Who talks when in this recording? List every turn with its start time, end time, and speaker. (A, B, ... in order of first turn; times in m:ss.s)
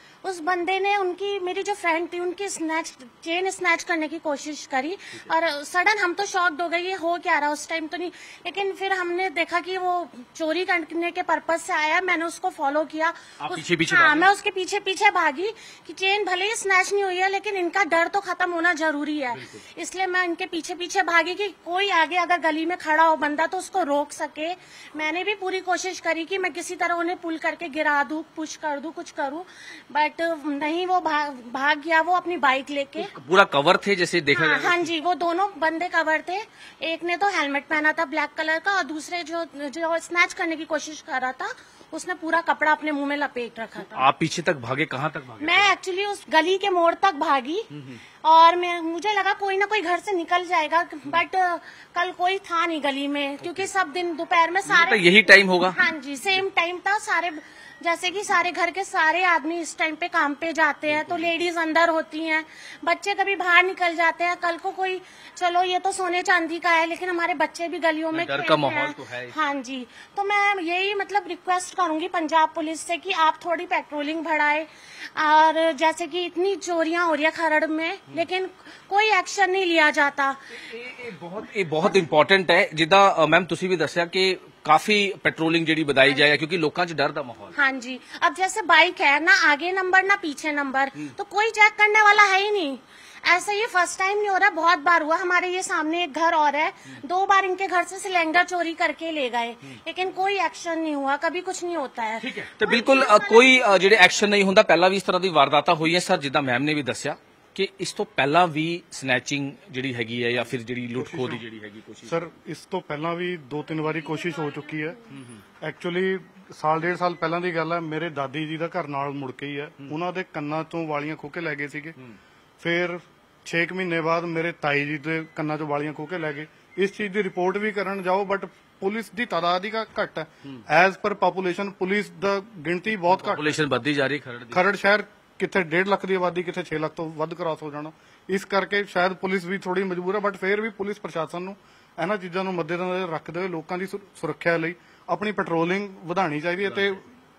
0:00.2-0:33.1 A
0:13.4-0:14.3 B
0:33.0-0:34.9 B
0:34.3-0:44.1 A
0:43.9-0:45.8 B
0:45.4-0:47.7 A
0:48.2-1:20.4 A
0:54.7-0:55.8 B
1:08.1-1:09.4 B
1:20.6-1:27.6 B
1:27.6-1:44.1 A
1:42.2-1:52.1 B
1:51.0-1:51.4 C
1:52.0-1:55.0 C
1:55.6-2:02.0 C
2:02.6-2:13.5 C
2:13.1-2:14.6 B
2:14.5-2:27.0 C